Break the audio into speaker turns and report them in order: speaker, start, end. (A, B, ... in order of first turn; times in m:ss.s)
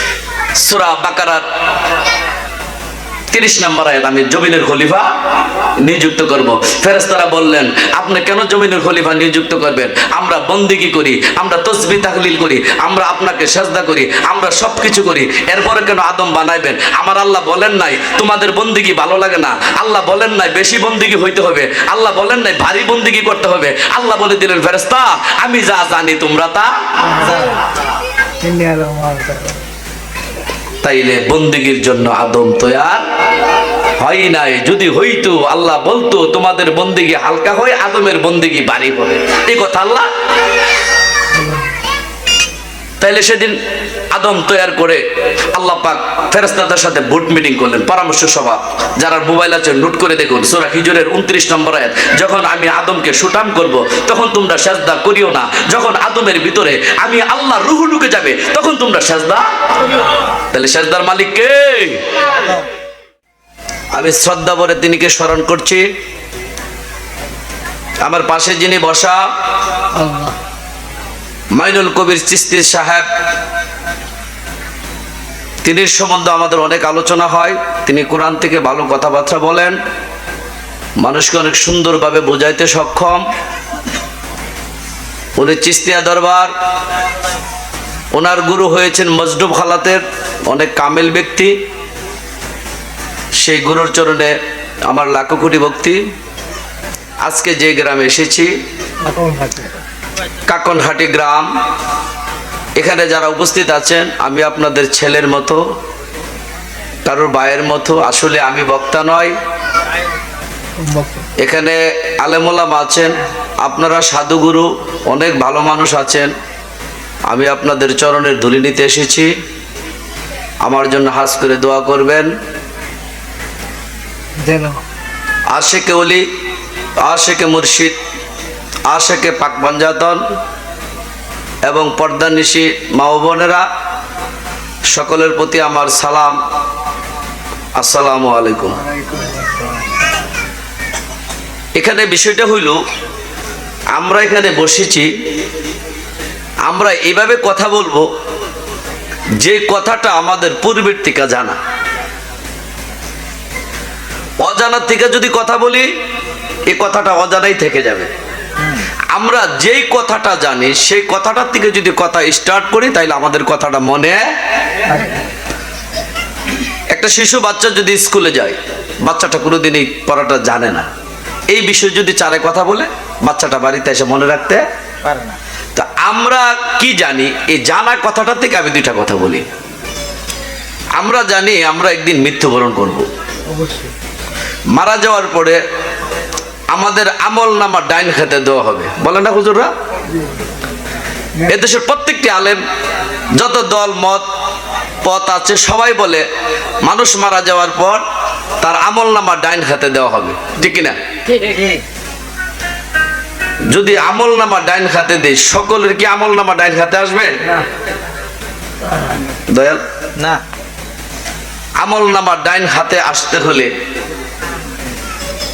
0:00.6-0:01.4 A
0:03.3-0:05.1 A
0:05.8-0:26.7 A
0:27.1-0:27.5 B
0:28.4-0:29.6 B
0:30.8-0:33.0 A
0:34.0-0:40.1 A
0:43.0-0:43.6 A
0:44.1-0:45.0 A
0:45.5-0:59.4 A
1:00.5-1:02.0 A
1:03.9-1:05.8 A
1:08.0-1:09.2 A
1:10.0-1:10.3 B
1:11.6-1:13.1 A
1:15.6-1:19.8 A
1:21.0-1:23.2 A
1:25.4-1:26.5 A
1:28.1-1:31.5 A
1:33.4-1:36.0 A
1:37.2-1:38.5 A
1:39.1-1:39.7 B
1:40.4-1:41.5 A
1:42.8-1:45.6 A
1:47.0-1:49.4 A
1:50.8-1:51.2 B
1:51.4-1:56.3 A
1:57.3-1:59.3 A
2:00.6-2:02.3 A
2:04.4-2:04.8 B
2:05.5-2:06.2 A
2:07.0-2:08.0 A
2:08.9-2:10.2 A
2:11.6-2:13.7 A
2:14.9-2:16.4 A
2:17.8-2:18.8 A
2:21.8-2:22.8 A
2:24.0-2:25.1 A
2:26.7-2:28.1 A
2:29.4-2:31.6 A
2:34.4-2:35.9 A
2:36.7-2:38.1 A
2:39.1-2:44.2 A
2:46.9-2:50.9 A
2:51.5-2:54.6 A
2:55.1-2:55.3 B
2:55.7-2:59.4 A
3:01.0-3:03.1 A
3:03.5-3:03.9 B
3:04.8-3:05.6 A
3:06.7-3:09.7 A
3:11.5-3:12.6 A
3:13.4-3:14.2 A
3:15.0-3:16.2 A
3:16.8-3:18.0 A
3:18.6-3:21.0 A
3:21.4-3:21.7 B
3:23.7-3:27.4 A
3:29.5-3:29.8 A
3:31.8-3:33.7 A